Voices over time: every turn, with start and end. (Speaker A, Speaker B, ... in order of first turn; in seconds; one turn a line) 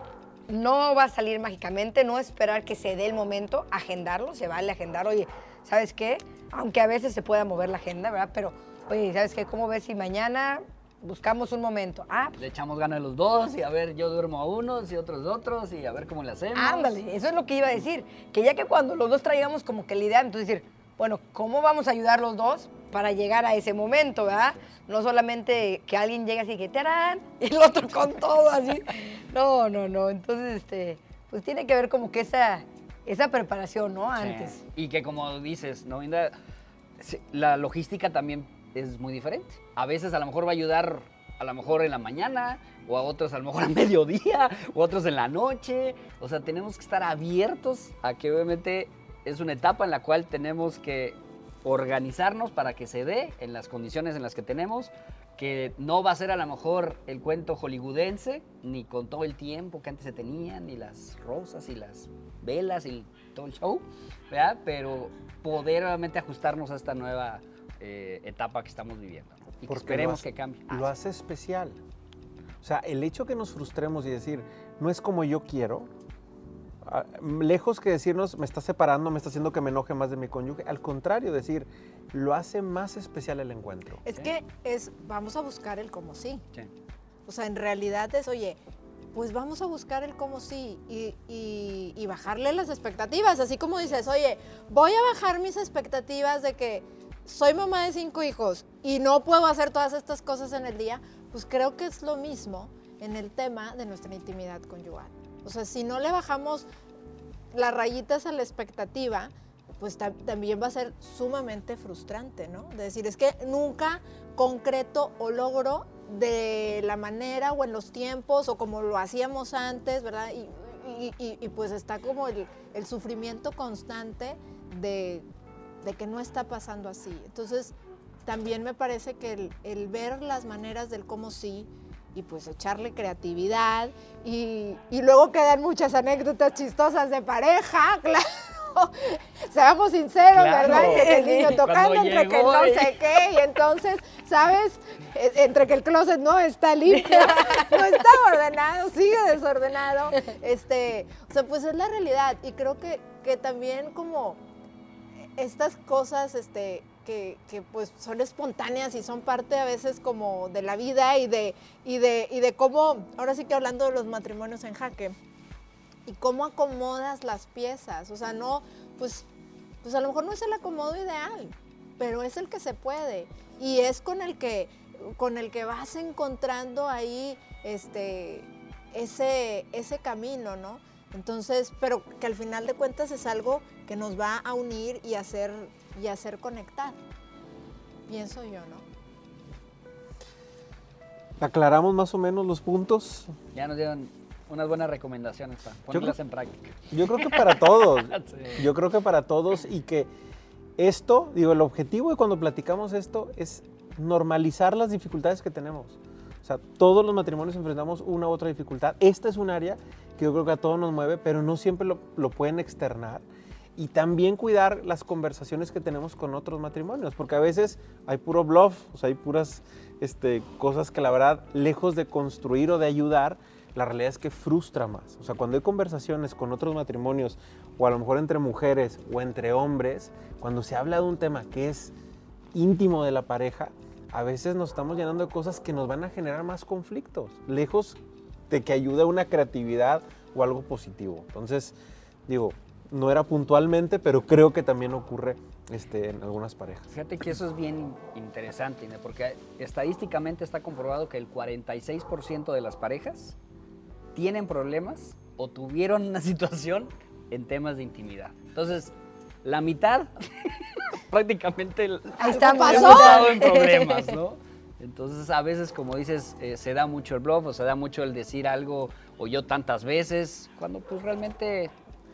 Speaker A: 0.5-12.4
Speaker B: 12.4-17.0
Speaker A: 16.5-34.6
Speaker B: 34.2-36.4
Speaker B: 37.0-70.9
Speaker C: 69.7-71.8
Speaker C: 72.6-75.9
Speaker C: 76.8-84.0
Speaker D: 84.0-86.5
Speaker D: 87.3-88.6
Speaker D: 89.1-106.7
Speaker D: 107.5-125.2
Speaker D: 125.8-127.7
Speaker D: 128.3-154.4
Speaker B: 140.3-143.0
Speaker A: 140.6-141.7
Speaker A: 146.9-147.9
Speaker D: 155.4-165.2
Speaker D: 166.1-169.3
Speaker D: 169.8-187.0
Speaker D: 188.1-188.8
Speaker C: 191.4-193.3
Speaker B: 193.5-198.7
Speaker C: 195.9-196.2
Speaker C: 196.9-200.1
Speaker C: 200.8-213.3
Speaker C: 213.8-231.9
Speaker C: 232.5-238.0
Speaker C: 238.5-241.8
Speaker C: 242.3-246.9
Speaker B: 246.9-253.4
Speaker B: 254.2-271.7
Speaker A: 262.2-264.2
Speaker D: 262.3-263.4